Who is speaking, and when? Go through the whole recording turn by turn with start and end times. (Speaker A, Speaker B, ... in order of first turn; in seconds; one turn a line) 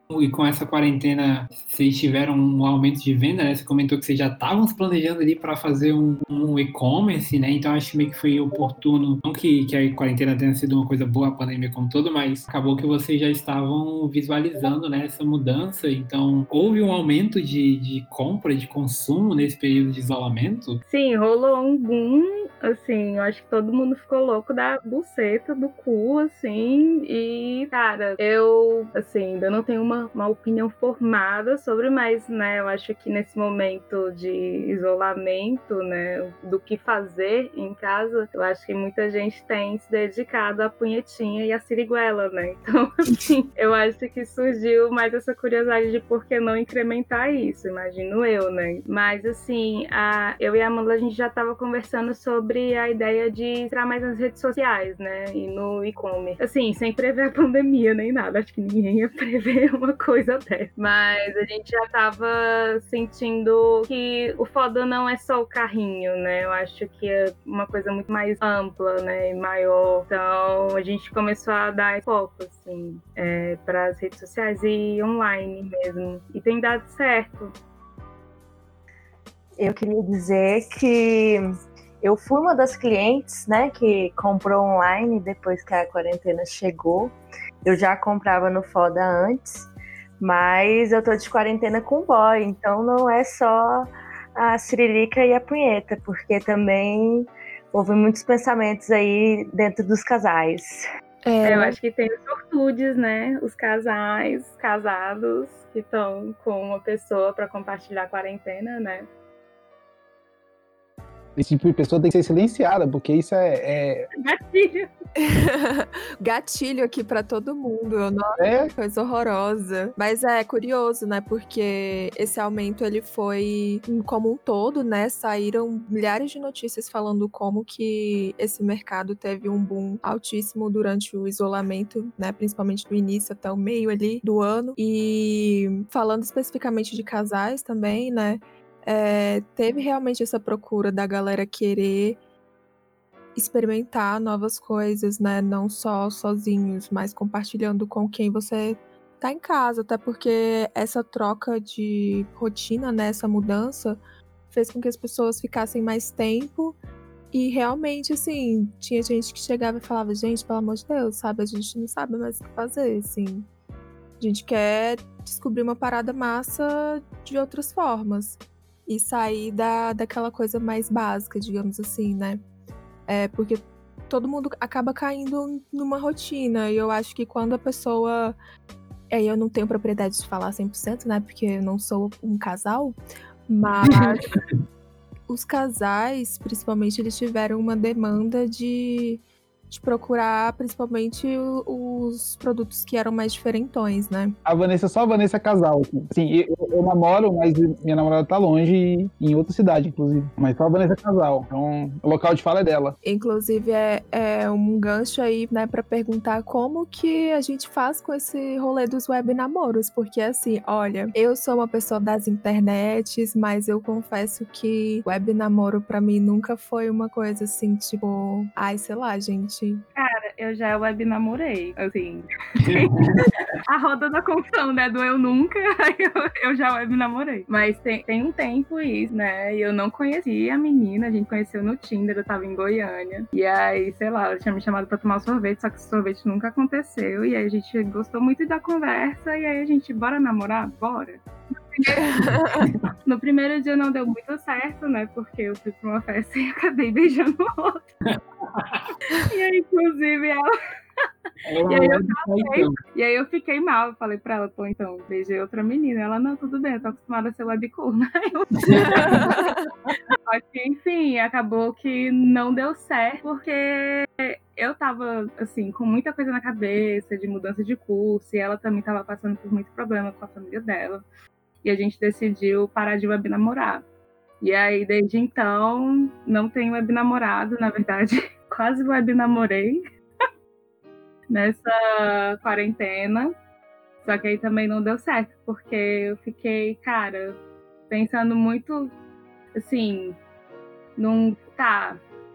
Speaker A: 0.1-20.8
Speaker B: 20.9-77.5
Speaker C: 79.6-81.5
Speaker C: 82.0-89.7
Speaker C: 90.2-100.8
Speaker D: 101.2-101.8
Speaker B: 101.4-109.1
Speaker E: 111.4-114.1
Speaker B: 114.2-114.9
Speaker D: 115.2-142.2
Speaker E: 118.4-118.7
Speaker D: 143.3-154.0
Speaker D: 154.5-156.8
Speaker D: 157.3-163.5
Speaker D: 164.2-172.4
Speaker D: 173.1-178.4
Speaker D: 179.1-183.0
Speaker D: 183.5-184.2
Speaker D: 185.3-194.4
Speaker E: 194.4-203.0
Speaker D: 203.0-219.8
Speaker B: 219.9-222.9
Speaker A: 222.6-223.3
Speaker B: 223.7-242.0
Speaker D: 241.8-242.7
Speaker A: 242.3-242.9
Speaker B: 243.0-247.8
Speaker A: 248.1-248.9
Speaker B: 249.2-250.5
Speaker A: 251.4-252.8
Speaker B: 251.7-259.5
Speaker A: 258.6-259.3
Speaker D: 258.8-259.7
Speaker B: 260.2-271.0
Speaker B: 271.6-273.8
Speaker B: 274.4-279.8
Speaker B: 281.3-283.3
Speaker B: 284.0-287.4
Speaker B: 287.9-288.9
Speaker B: 289.6-290.2
Speaker B: 291.0-292.0